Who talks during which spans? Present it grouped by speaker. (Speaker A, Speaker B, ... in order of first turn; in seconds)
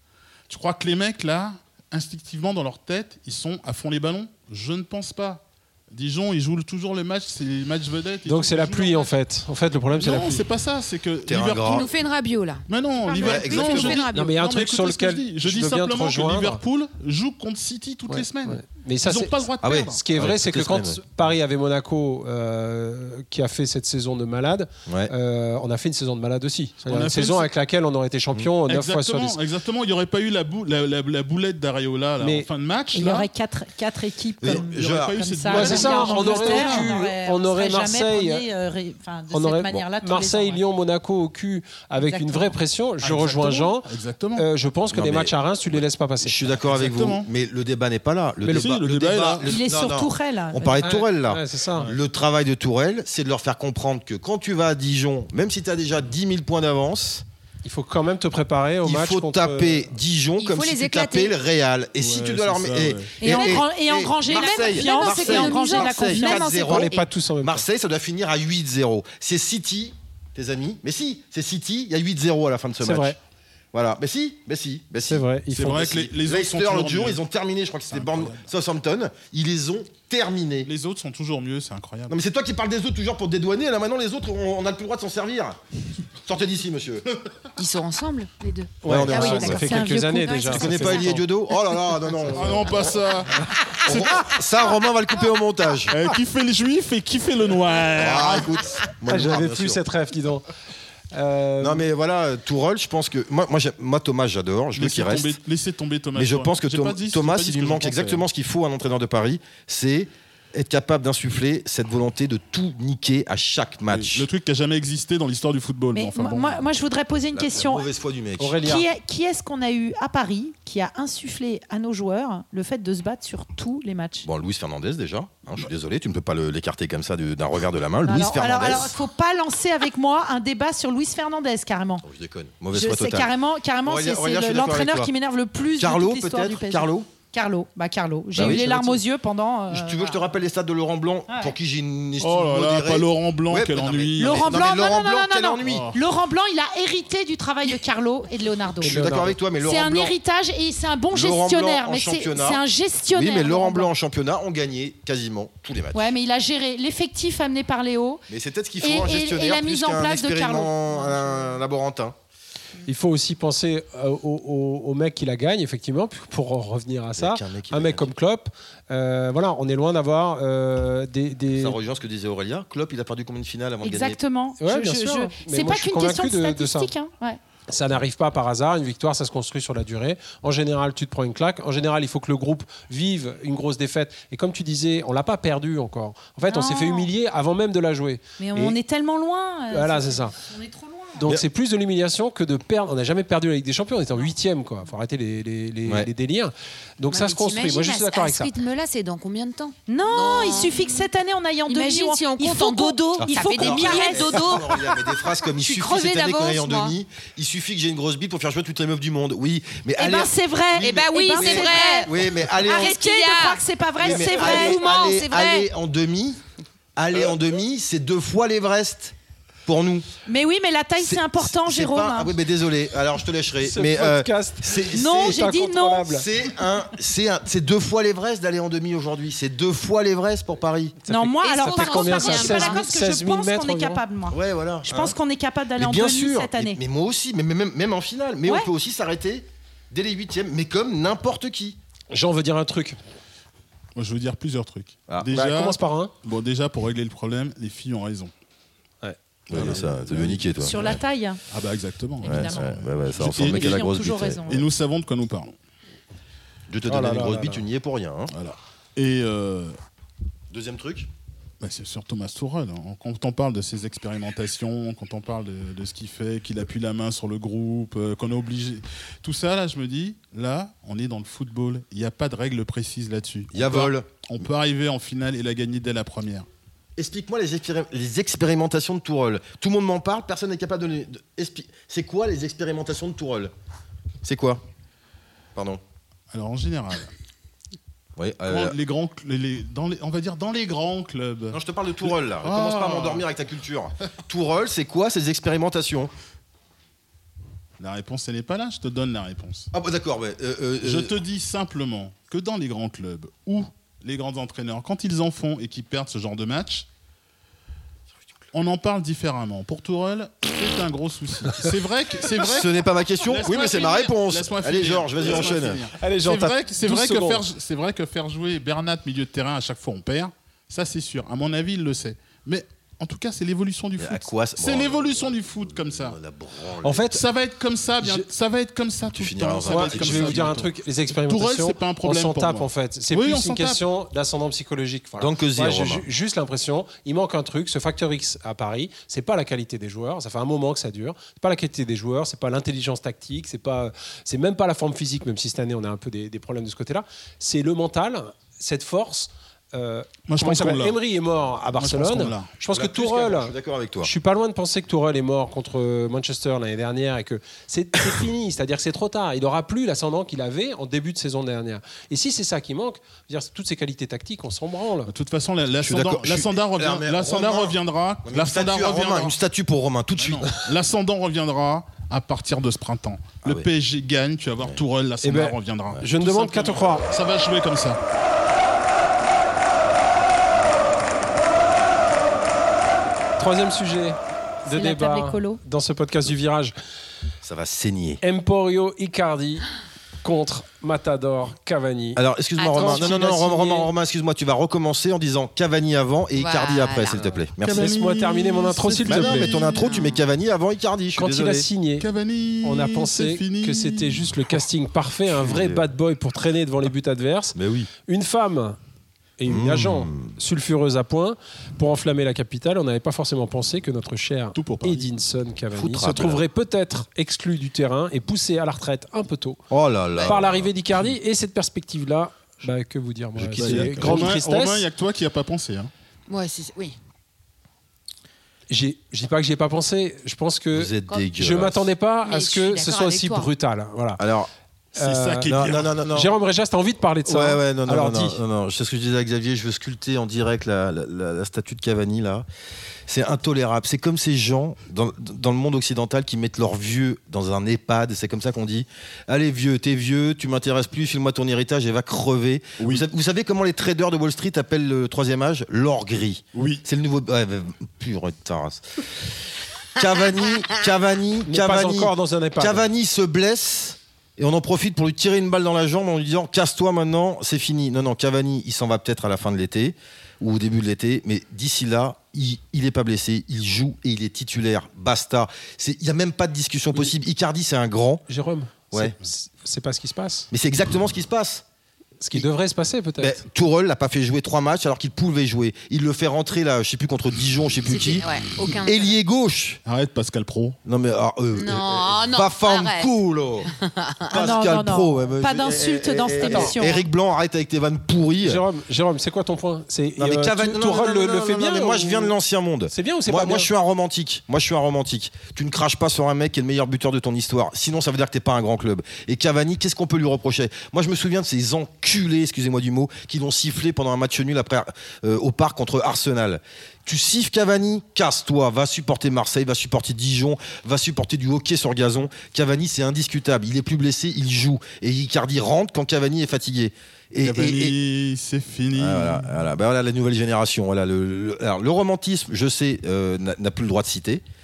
Speaker A: 0.5-9.1, 9.9-11.9, 12.7-20.0, 26.9-27.5, 28.6-33.3, 34.4-37.0, 43.0-44.5, 46.7-47.3, 48.5-49.6, 62.0-63.6, 75.5-77.2, 77.9-78.4, 80.7-82.1, 92.3-94.4, 95.9-98.7, 104.7-108.2, 113.9-116.6, 142.2-144.6, 145.6-146.0, 243.9-248.3, 249.5-250.7, 251.5-255.5, 258.3-259.8, 261.6-276.5, 286.3-287.1, 288.5-293.2, 297.8-299.7, 300.8-306.9, 308.5-326.2, 327.1-333.8, 350.3-351.0, 351.8-352.5, 365.1-369.3, 370.1-378.0, 397.6-399.9, 402.0-404.6, 414.5-415.1, 423.5-425.9, 435.0-435.9, 452.8-453.0, 456.5-456.8, 489.8-490.8, 527.4-529.5
Speaker B: 8.2-10.4, 14.1-16.6, 18.1-29.4, 32.2-32.5, 35.5-38.5, 39.3-46.4, 48.4-48.7, 50.8-51.9, 57.6-59.9, 66.5-67.6, 72.8-73.2, 75.0-75.8, 88.8-91.3, 99.1-100.5, 101.1-101.9, 118.4-118.8, 138.4-139.0, 148.8-149.4, 162.9-171.8, 174.6-176.9, 177.7-188.8, 189.7-190.3, 191.2-198.5, 223.6-226.2, 231.0-234.0, 242.1-243.0, 245.3-246.1, 256.9-257.6, 316.0-317.5, 326.8-327.2, 328.0-328.3, 329.6-365.1, 375.2-377.1, 383.4-386.7, 388.2-389.7, 390.2-393.9, 397.1-399.6, 401.1-402.1, 402.6-408.8, 409.4-419.6, 420.2-424.9, 428.7-434.2, 435.0-435.6, 436.1-438.4, 461.4-462.9, 478.3-480.5, 482.2-483.4, 496.4-496.7, 498.4-502.3, 502.9-503.7
Speaker C: 11.2-11.9, 13.2-14.1, 19.6-21.0, 24.9-25.1, 34.4-35.2, 44.9-57.2, 58.8-73.2, 73.7-80.7, 82.1-85.6, 86.2-87.3, 88.8-89.8, 90.5-92.9, 93.8-95.9, 97.9-99.8, 101.6-105.4, 106.1-114.3, 117.3-118.7, 124.2-128.9, 132.0-133.3, 133.8-135.1, 135.8-137.1, 138.3-138.7, 139.7-145.9, 148.8-150.1, 151.1-152.6, 153.1-156.1, 158.3-162.1, 167.2-168.1, 171.5-174.2, 203.2-213.0, 214.0-216.4, 216.9-219.1, 219.7-220.1, 221.0-225.5, 226.1-230.9, 234.3-235.2, 235.8-241.8, 249.5-251.0, 252.2-254.5, 256.7-258.3, 260.5-261.1, 273.5-274.1, 277.0-283.5, 284.2-284.6, 285.5-285.8, 288.2-288.7, 291.5-296.1, 299.7-301.1, 312.4-315.9, 324.0-327.1, 329.1-330.6, 335.2-336.1, 352.7-354.1, 365.8-370.6, 387.4-388.2, 392.1-397.9, 399.0-401.6, 405.4-405.8, 407.5-407.9, 409.4-410.3, 415.8-416.4, 419.7-420.7, 423.4-424.4, 430.7-431.9, 434.2-434.5, 435.4-436.3, 437.2-442.4, 443.1-459.3, 459.9-478.2, 480.5-481.6, 483.2-489.8, 490.8-493.7, 494.3-498.6, 500.2-528.0, 528.9-534.4
Speaker D: 11.6-14.3, 60.4-61.4, 64.3-67.1, 87.6-91.0, 197.1-200.9, 201.7-206.9, 210.8-212.1, 212.6-215.7, 231.4-232.9, 392.6-393.1, 396.4-397.2, 399.8-400.2, 426.3-427.0, 432.2-433.5, 487.9-489.1, 491.6-493.1, 493.7-494.3
Speaker E: 32.9-40.6, 41.9-42.5, 49.4-50.8, 63.2-66.5, 89.1-91.1, 115.9-117.8, 118.6-124.3, 128.0-132.0, 132.7-140.3, 141.3-141.5, 144.2-149.0, 149.6-153.9, 155.9-158.2, 158.8-161.5, 173.8-177.4, 186.5-187.1, 188.4-191.2, 199.9-204.6, 210.0-215.2, 220.2-222.3, 224.9-226.2, 231.1-236.8, 250.6-251.4, 252.2-252.7, 253.3-254.6, 384.6-385.6, 494.3-497.1